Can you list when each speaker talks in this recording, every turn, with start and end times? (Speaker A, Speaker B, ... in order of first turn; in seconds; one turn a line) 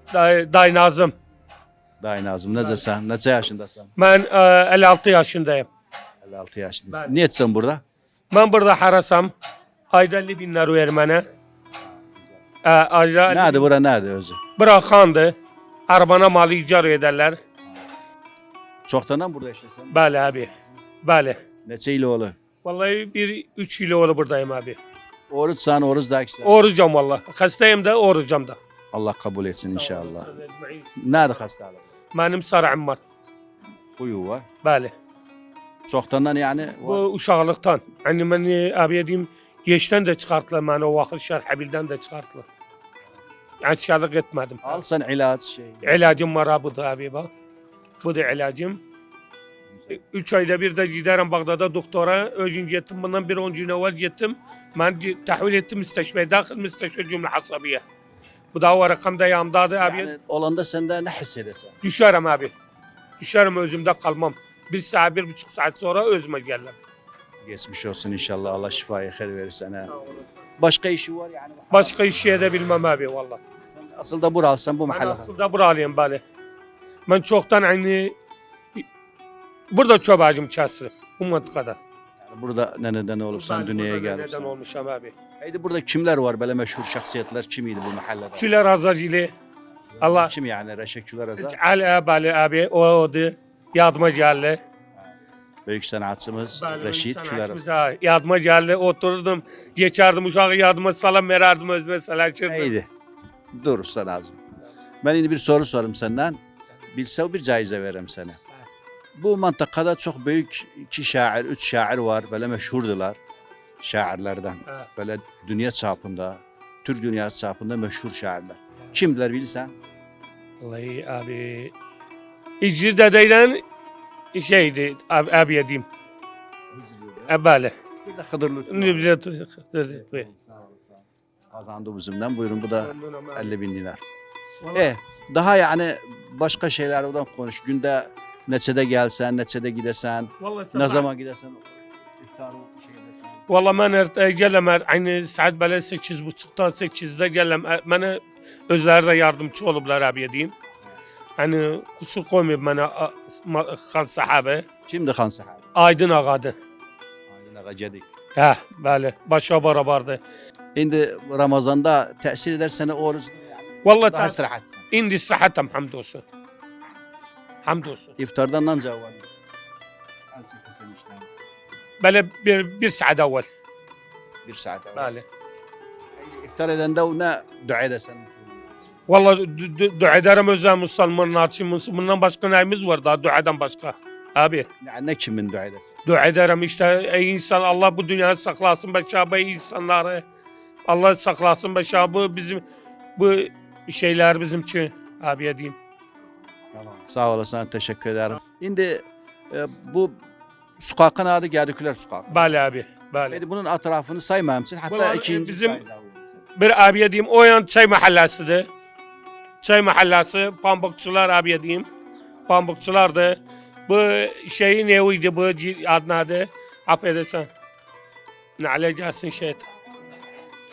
Speaker A: 0.1-1.1
Speaker B: 2.0-3.9
Speaker A: 2.6-2.8
Speaker A: 4.0-5.7
Speaker B: 6.2-7.8
Speaker A: 6.9-7.2
Speaker A: 8.3-9.3
Speaker A: 9.9-11.2
Speaker B: 11.8-12.4
Speaker A: 12.6-13.7
Speaker B: 13.3-14.4
Speaker A: 14.6-15.3
Speaker A: 15.9-17.4
Speaker B: 17.6-17.9
Speaker B: 18.9-20.6
Speaker A: 19.9-20.5
Speaker A: 21.0-21.4
Speaker B: 21.6-22.4
Speaker A: 22.6-24.8
Speaker B: 25.3-26.6
Speaker A: 26.4-28.6
Speaker B: 28.9-30.3
Speaker A: 29.7-31.0
Speaker B: 31.0-31.9
Speaker A: 32.1-33.0
Speaker B: 33.9-34.5
Speaker A: 34.6-34.9
Speaker B: 35.9-37.0
Speaker A: 36.8-42.5
Speaker A: 43.6-44.8
Speaker B: 44.6-46.0
Speaker A: 45.8-47.3
Speaker A: 48.0-48.8
Speaker B: 49.7-50.0
Speaker A: 49.9-57.8
Speaker A: 58.5-60.1
Speaker B: 59.8-61.8
Speaker A: 61.8-62.5
Speaker A: 63.2-66.8
Speaker B: 67.4-69.9
Speaker A: 68.3-68.7
Speaker A: 69.9-70.3
Speaker B: 70.6-72.2
Speaker A: 71.7-73.4
Speaker B: 73.7-75.3
Speaker A: 74.9-76.2
Speaker A: 77.1-78.1
Speaker A: 79.7-81.8
Speaker B: 82.2-84.5
Speaker A: 83.3-85.1
Speaker B: 85.4-88.5
Speaker A: 88.3-89.3
Speaker B: 89.9-91.6
Speaker A: 90.0-90.3
Speaker A: 91.4-94.6
Speaker B: 95.7-97.6
Speaker A: 96.5-102.7
Speaker B: 102.5-102.9
Speaker B: 103.5-104.4
Speaker B: 105.0-106.4
Speaker B: 106.9-108.4
Speaker B: 109.2-113.2
Speaker B: 113.8-119.7
Speaker A: 120.6-121.7
Speaker A: 122.6-123.6
Speaker A: 124.3-125.8
Speaker B: 126.7-127.4
Speaker A: 127.3-127.8
Speaker B: 128.0-129.1
Speaker A: 128.7-130.3
Speaker B: 129.9-134.0
Speaker A: 132.8-133.5
Speaker A: 134.6-134.9
Speaker B: 134.7-143.4
Speaker A: 140.4-141.1
Speaker A: 143.5-150.5
Speaker A: 151.4-154.6
Speaker B: 154.9-155.7
Speaker A: 155.7-156.5
Speaker B: 157.3-158.1
Speaker A: 158.3-160.2
Speaker B: 160.8-164.9
Speaker A: 163.8-166.2
Speaker A: 167.6-168.2
Speaker B: 168.2-169.3
Speaker B: 170.3-171.3
Speaker A: 172.0-173.5
Speaker B: 174.4-175.1
Speaker A: 174.9-175.2
Speaker B: 176.2-178.8
Speaker A: 179.1-184.7
Speaker B: 184.8-185.9
Speaker A: 186.1-190.2
Speaker A: 190.9-192.6
Speaker A: 193.2-195.8
Speaker B: 196.7-200.2
Speaker B: 200.8-202.6
Speaker A: 202.3-203.4
Speaker B: 203.3-206.4
Speaker A: 204.9-205.8
Speaker A: 206.6-208.7
Speaker A: 209.6-211.8
Speaker A: 212.5-217.5
Speaker A: 218.6-219.7